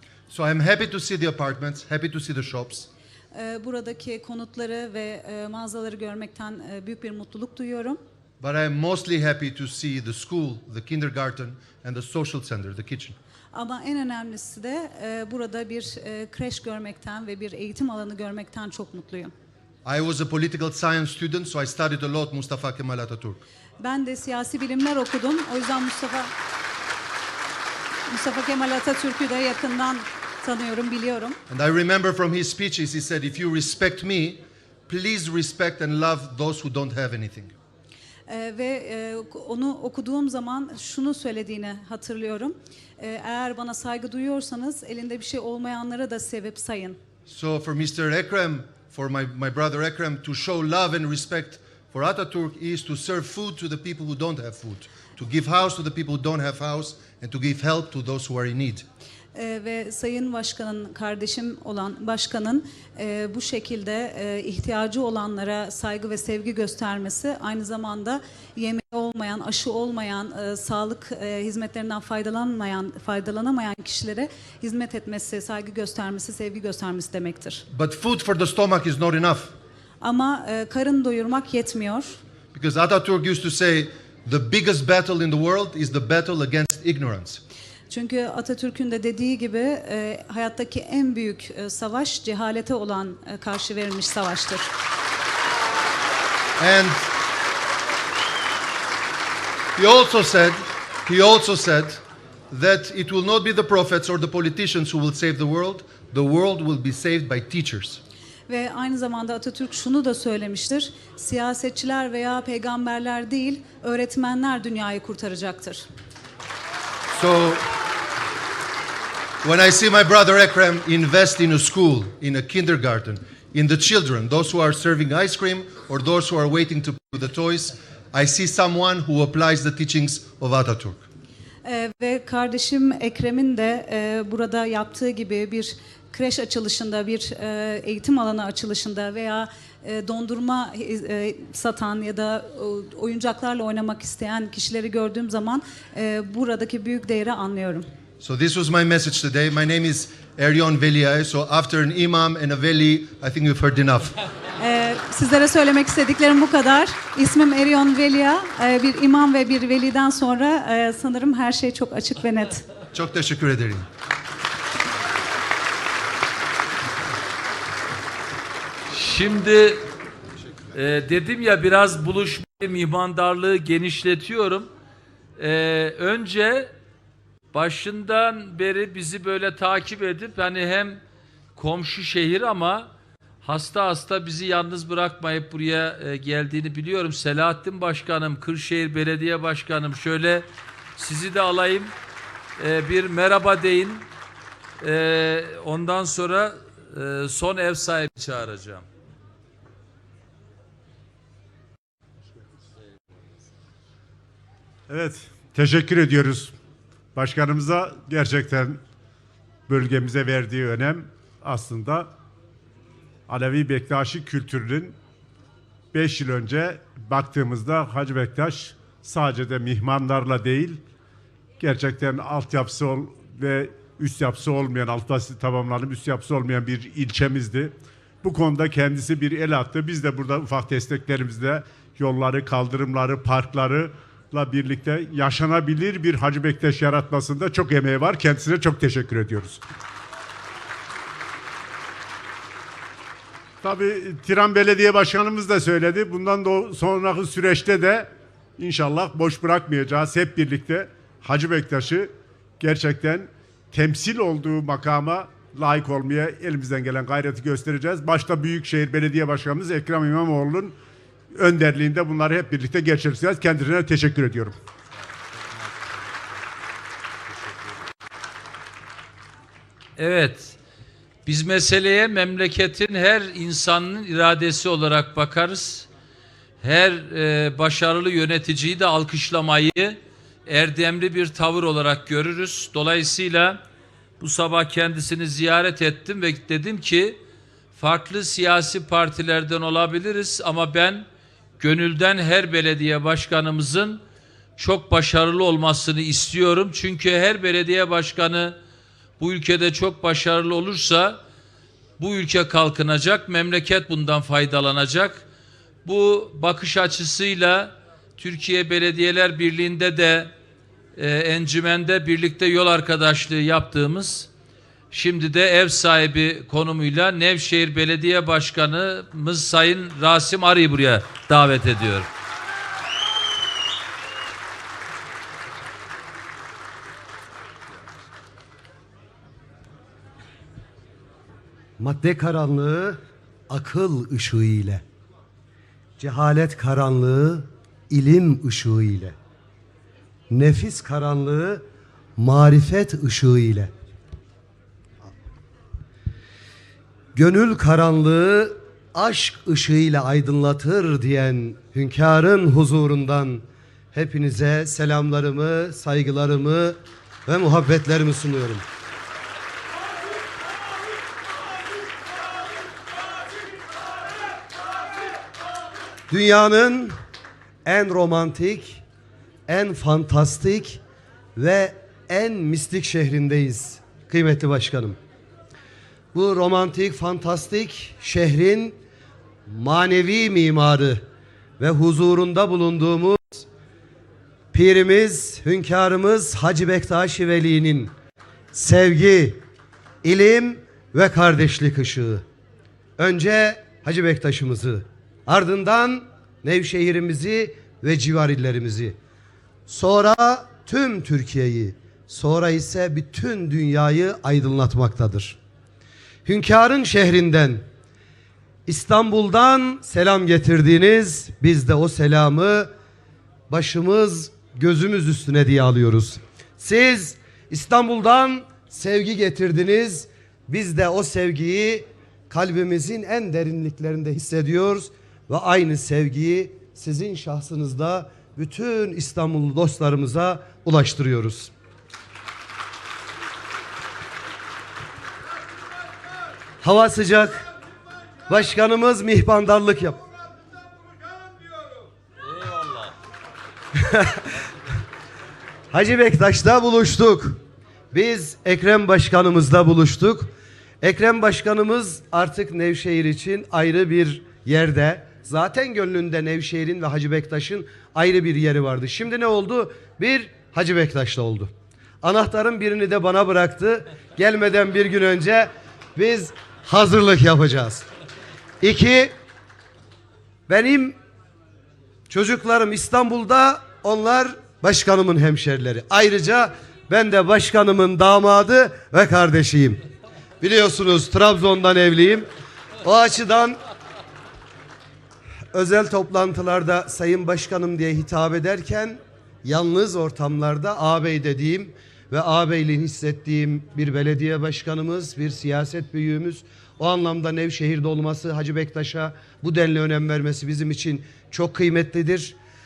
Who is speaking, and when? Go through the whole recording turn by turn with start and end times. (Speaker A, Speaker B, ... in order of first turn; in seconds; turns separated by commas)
Speaker A: 0.3-2.9, Speaker B: 3.3-8.0, Speaker A: 8.4-13.2, Speaker B: 13.5-19.3, Speaker A: 19.9-23.4, Speaker B: 23.8-26.3, Speaker B: 28.1-31.4, Speaker A: 31.5-37.5, Speaker B: 38.3-47.0, Speaker A: 47.3-58.8, Speaker B: 59.4-77.7, Speaker A: 77.7-79.5, Speaker B: 80.0-82.2, Speaker A: 82.5-87.4, Speaker B: 87.9-94.7, Speaker A: 96.6-97.1, Speaker A: 99.8-108.0, Speaker B: 108.5-115.8, Speaker A: 117.1-117.6, Speaker A: 119.4-131.0, Speaker B: 131.6-147.9, Speaker A: 148.2-154.2, Speaker B: 154.6-162.7, Speaker A: 162.9-163.9, Speaker C: 168.9-169.9, Speaker C: 170.8-174.7, Speaker C: 175.4-176.7, Speaker C: 177.5-181.0, Speaker C: 181.6-182.9, Speaker C: 183.4-191.9, Speaker C: 192.6-194.1, Speaker C: 194.8-198.9, Speaker D: 204.9-206.5, Speaker D: 207.2-208.8, Speaker D: 209.7-212.1, Speaker D: 213.3-215.0, Speaker D: 215.9-220.8, Speaker D: 221.6-239.6, Speaker D: 243.6-260.8, Speaker D: 261.4-264.6, Speaker C: 270.0-270.6, Speaker C: 271.3-275.9, Speaker C: 276.6-283.6, Speaker C: 284.2-287.2, Speaker C: 287.7-291.1, Speaker C: 291.6-294.0, Speaker C: 294.6-298.6, Speaker C: 299.2-301.2, Speaker C: 302.0-305.2, Speaker C: 305.9-310.3, Speaker C: 311.0-314.3, Speaker C: 314.9-322.1, Speaker E: 331.8-334.8, Speaker E: 336.0-339.1, Speaker E: 340.3-341.6, Speaker E: 342.2-343.7, Speaker E: 347.1-358.6, Speaker E: 366.1-367.0, Speaker E: 367.6-368.8, Speaker E: 369.5-370.8, Speaker E: 371.4-375.0, Speaker E: 376.1-378.8, Speaker E: 379.5-381.0, Speaker E: 381.6-383.5, Speaker E: 384.5-387.9, Speaker E: 388.5-389.4, Speaker E: 390.0-392.2, Speaker E: 393.0-399.0, Speaker E: 399.7-405.4, Speaker E: 406.2-407.6, Speaker E: 408.7-412.7, Speaker E: 413.5-431.5, Speaker E: 436.6-437.5, Speaker E: 438.3-440.0, Speaker C: 442.4-442.8, Speaker E: 443.8-444.3, Speaker E: 445.7-447.4, Speaker E: 447.9-467.9, Speaker E: 468.6-469.1, Speaker E: 470.5-471.0, Speaker E: 472.1-479.8, Speaker E: 480.4-482.3, Speaker E: 482.8-483.6, Speaker E: 485.5-502.4